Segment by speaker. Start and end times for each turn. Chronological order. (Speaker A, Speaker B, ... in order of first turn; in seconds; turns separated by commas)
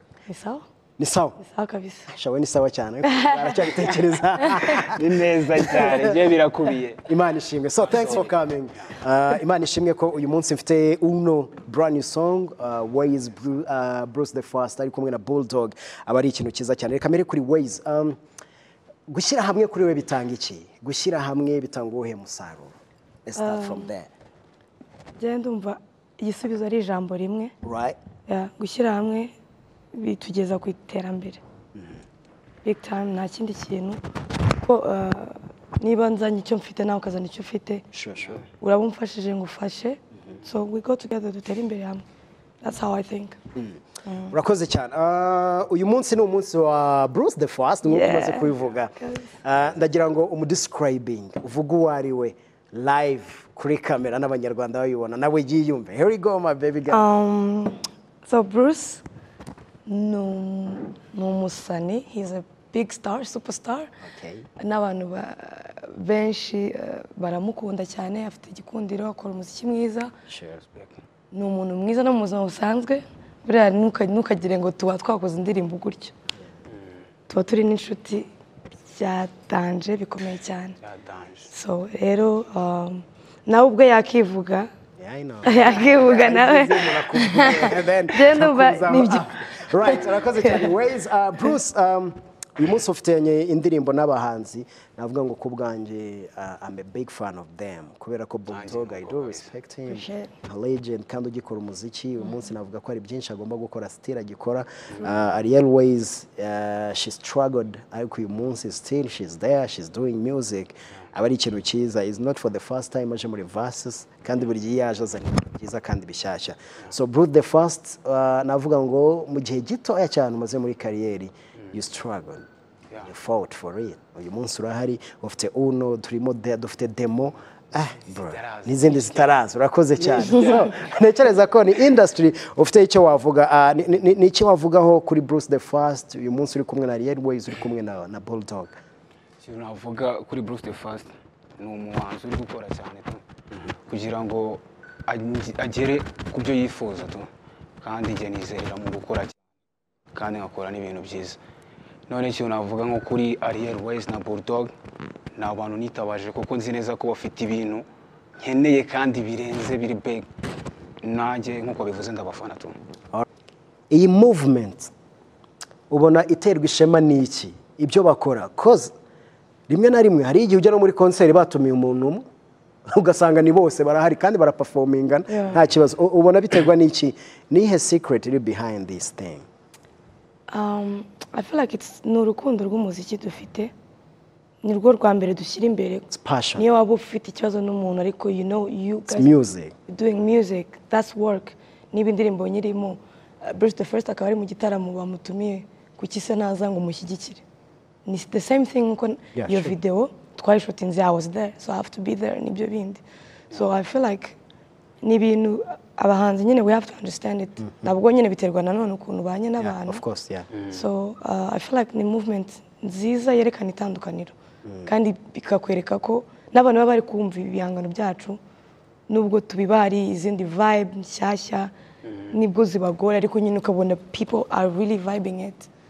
Speaker A: 0.3-0.6, Speaker B: 1.0-1.4, Speaker A: 1.4-2.1, Speaker B: 2.1-6.2, Speaker A: 3.0-3.6, Speaker C: 3.9-4.1, Speaker A: 4.4-4.8, Speaker C: 4.8-7.1, Speaker B: 7.1-18.2, Speaker C: 7.8-8.4, Speaker B: 19.1-22.7, Speaker B: 23.2-24.1, Speaker A: 23.4-23.9, Speaker A: 25.2-27.5, Speaker B: 27.6-28.0, Speaker A: 28.3-29.3, Speaker A: 29.9-31.4, Speaker B: 31.8-32.0, Speaker A: 32.6-37.9, Speaker B: 37.9-38.4, Speaker A: 38.6-42.0, Speaker A: 42.6-43.4, Speaker B: 43.5-57.0, Speaker A: 44.0-44.4, Speaker A: 47.8-49.3, Speaker A: 56.9-59.0, Speaker A: 59.9-63.9, Speaker B: 64.0-64.5, Speaker A: 64.6-70.1, Speaker B: 70.3-70.6, Speaker A: 71.3-76.1, Speaker A: 77.3-78.3, Speaker A: 78.9-80.8, Speaker C: 80.8-81.5, Speaker A: 81.5-84.7, Speaker B: 85.0-122.5, Speaker A: 85.4-90.8, Speaker C: 98.5-99.5, Speaker A: 99.9-100.3, Speaker B: 123.0-138.8, Speaker C: 128.1-129.4, Speaker C: 130.0-130.8, Speaker C: 139.4-143.2, Speaker C: 143.8-147.3, Speaker C: 147.8-149.3, Speaker C: 150.1-151.4, Speaker C: 152.1-154.7, Speaker C: 155.3-157.8, Speaker C: 158.4-160.2, Speaker C: 161.0-162.8, Speaker B: 163.9-164.9, Speaker B: 165.9-168.9, Speaker B: 169.7-172.2, Speaker B: 172.9-179.4, Speaker A: 175.3-175.6, Speaker A: 180.5-183.7, Speaker A: 184.6-189.3, Speaker B: 186.1-186.7, Speaker B: 189.1-189.7, Speaker A: 189.9-197.4, Speaker A: 198.1-204.4, Speaker B: 199.3-199.8, Speaker A: 205.0-210.0, Speaker B: 209.6-210.5, Speaker C: 210.5-210.8, Speaker A: 210.7-214.3, Speaker B: 214.6-214.9, Speaker A: 214.8-218.4, Speaker A: 219.1-221.7, Speaker C: 222.0-222.3, Speaker A: 222.3-225.7